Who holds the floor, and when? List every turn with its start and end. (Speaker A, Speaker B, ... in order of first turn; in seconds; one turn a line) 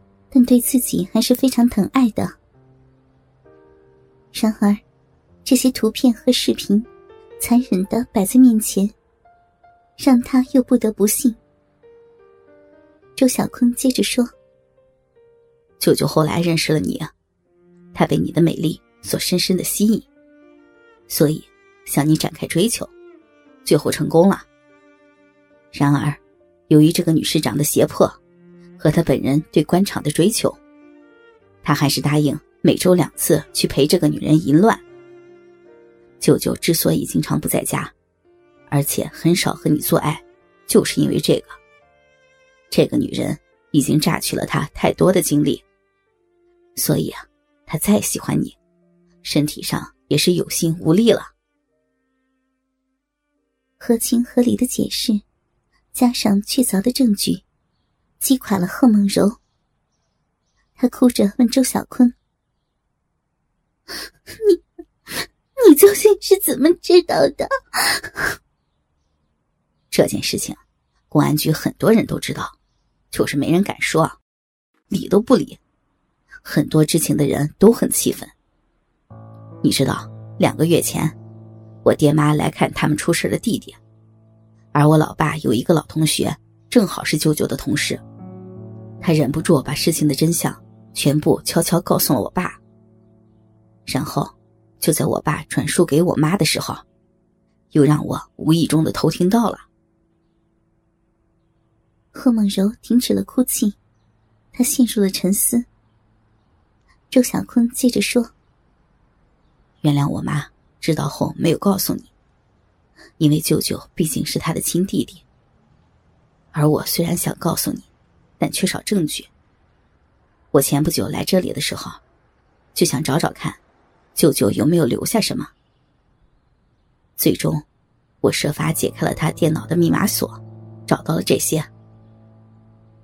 Speaker A: 0.3-2.4
Speaker A: 4.3-4.8
Speaker A: 5.5-6.9
Speaker A: 7.4-8.9
Speaker A: 10.0-11.4
Speaker A: 13.2-14.3
Speaker B: 15.8-17.1
Speaker B: 17.9-20.1
Speaker B: 21.1-22.9
Speaker B: 23.6-24.5
Speaker B: 25.7-28.2
Speaker B: 28.8-30.6
Speaker B: 31.6-34.8
Speaker B: 36.2-37.9
Speaker B: 38.7-41.6
Speaker B: 42.7-45.6
Speaker B: 46.8-48.6
Speaker B: 49.2-51.3
Speaker A: 53.8-55.2
Speaker A: 55.9-57.4
Speaker A: 58.2-59.4
Speaker A: 60.8-62.1
Speaker A: 65.6-68.3
Speaker B: 69.9-70.6
Speaker B: 71.1-72.6
Speaker B: 73.1-74.2
Speaker B: 74.9-75.6
Speaker B: 76.4-78.3
Speaker B: 79.6-81.2
Speaker B: 81.8-83.8
Speaker B: 84.7-88.0
Speaker B: 89.0-92.6
Speaker B: 93.9-96.8
Speaker B: 97.7-99.7
Speaker A: 102.1-103.8
Speaker A: 104.5-105.7
Speaker A: 107.1-108.3
Speaker B: 109.8-112.1
Speaker B: 113.2-115.2
Speaker B: 116.5-117.9
Speaker B: 118.4-119.3
Speaker B: 120.5-122.0
Speaker B: 122.8-123.6
Speaker B: 124.1-125.5
Speaker B: 127.2-127.6
Speaker B: 128.2-131.7